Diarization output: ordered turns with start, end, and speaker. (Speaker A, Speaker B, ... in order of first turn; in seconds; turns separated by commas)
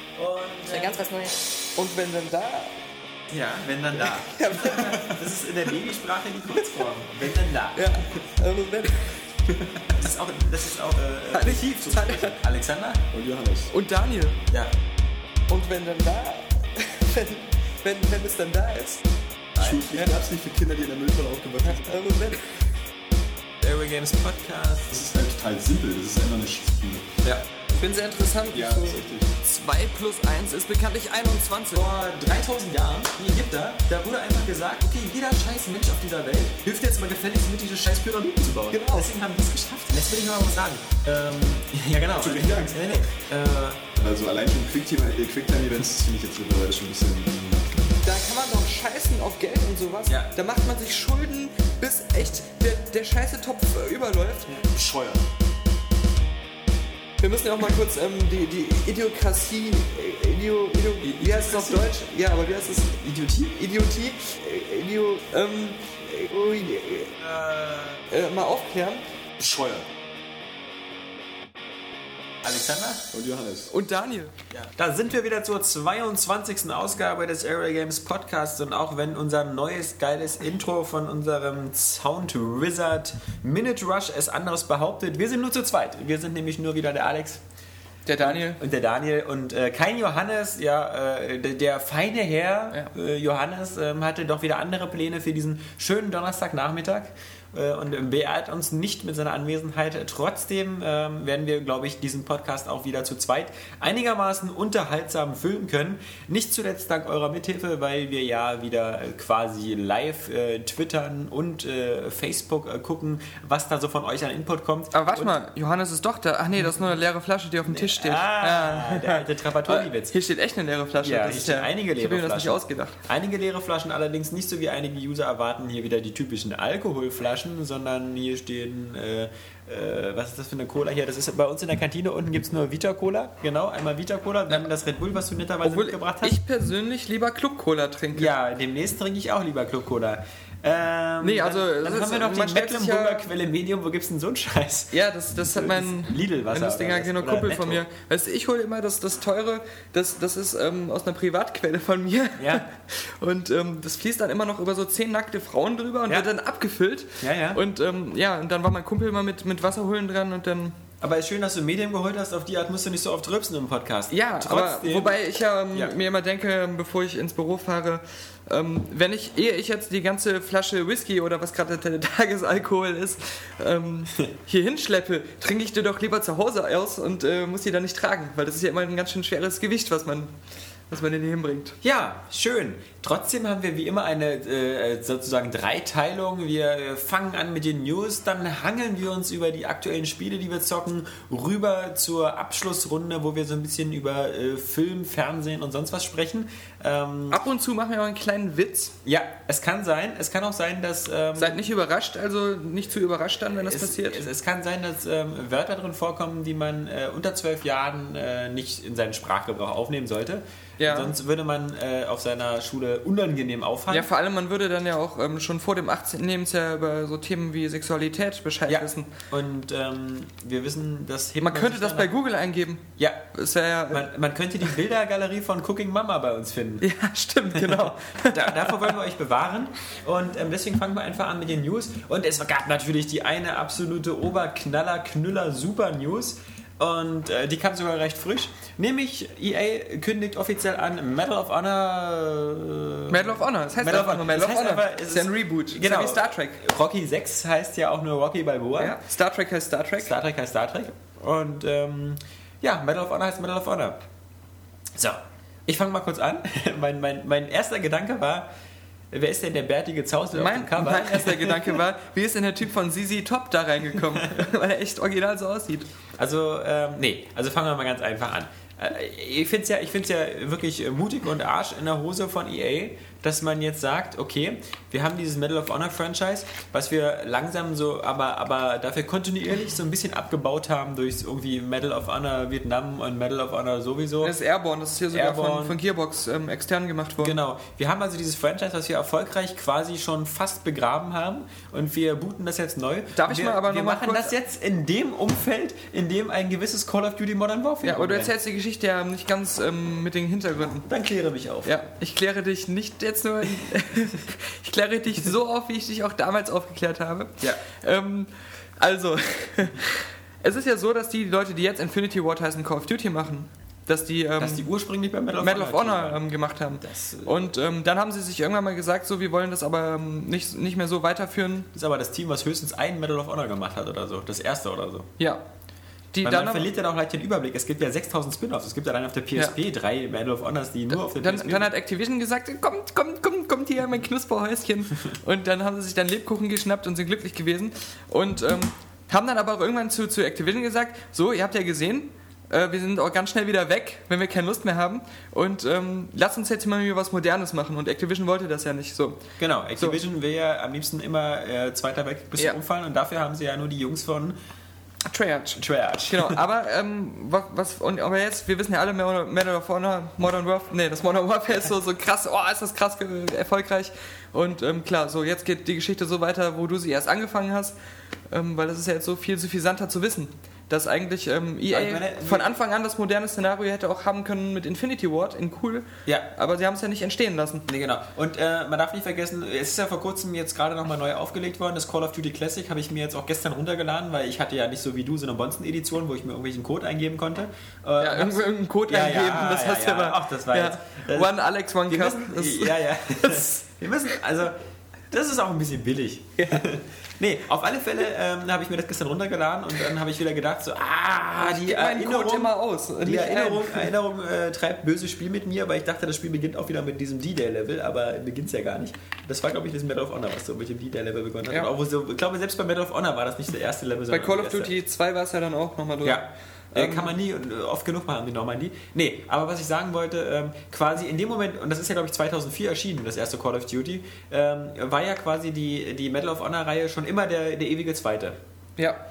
Speaker A: 0.1-1.0, Speaker B: 0.7-2.7, Speaker A: 3.3-7.9, Speaker B: 4.0-5.1, Speaker B: 7.7-9.2, Speaker A: 9.5-13.0, Speaker B: 11.3-12.3, Speaker C: 13.1-13.7, Speaker B: 13.7-14.4, Speaker B: 15.5-19.0, Speaker A: 19.6-19.8, Speaker C: 19.6-21.9, Speaker B: 21.6-22.8, Speaker A: 23.6-24.9, Speaker C: 24.9-27.2, Speaker B: 27.7-31.9, Speaker C: 28.5-29.3, Speaker A: 31.7-43.8, Speaker B: 38.7-39.1, Speaker C: 42.1-43.0, Speaker C: 43.9-47.8, Speaker B: 48.0-54.5, Speaker C: 54.7-55.2, Speaker B: 57.2-67.1, Speaker A: 61.0-62.0, Speaker A: 62.9-63.5, Speaker A: 67.1-68.1, Speaker B: 68.1-69.0, Speaker C: 69.4-69.8, Speaker A: 72.4-73.1, Speaker C: 73.1-73.7, Speaker B: 73.7-74.3, Speaker A: 74.5-87.4, Speaker B: 88.1-88.6, Speaker A: 88.2-115.3, Speaker B: 114.9-123.0, Speaker A: 117.7-120.1, Speaker A: 121.0-136.4, Speaker B: 135.6-138.3, Speaker A: 138.1-147.8, Speaker B: 141.2-143.2, Speaker B: 144.9-160.7, Speaker A: 152.4-152.6, Speaker A: 157.2-157.6, Speaker A: 161.0-165.2, Speaker B: 164.1-180.3, Speaker B: 180.9-181.8, Speaker A: 181.8-197.4, Speaker B: 197.3-198.9, Speaker A: 199.0-201.6, Speaker B: 201.4-204.2, Speaker A: 203.6-214.1, Speaker B: 210.8-211.1, Speaker B: 213.9-219.1, Speaker A: 218.7-222.1, Speaker B: 221.4-224.1, Speaker A: 223.9-226.8, Speaker B: 226.8-228.9, Speaker A: 227.5-249.0, Speaker B: 243.1-246.6, Speaker B: 248.8-250.1, Speaker A: 250.0-254.0, Speaker A: 254.9-258.5, Speaker A: 259.1-261.8, Speaker B: 260.3-265.9, Speaker A: 266.2-284.3, Speaker B: 284.2-287.4, Speaker A: 285.1-285.8, Speaker A: 287.2-298.3, Speaker B: 293.1-294.3, Speaker B: 297.8-300.9, Speaker A: 300.9-301.8, Speaker B: 301.6-314.6, Speaker A: 314.4-317.5, Speaker B: 315.4-321.7, Speaker A: 321.7-325.1, Speaker B: 326.1-326.7, Speaker A: 326.2-331.7, Speaker B: 330.9-349.2, Speaker A: 349.4-354.4, Speaker B: 355.1-367.8, Speaker A: 355.6-356.4, Speaker B: 368.3-377.6, Speaker A: 371.7-372.5, Speaker A: 377.7-391.4, Speaker B: 388.0-393.6, Speaker A: 391.9-394.6, Speaker A: 395.1-414.7, Speaker B: 396.4-396.6, Speaker B: 401.4-403.9, Speaker B: 414.1-417.1, Speaker A: 416.0-428.4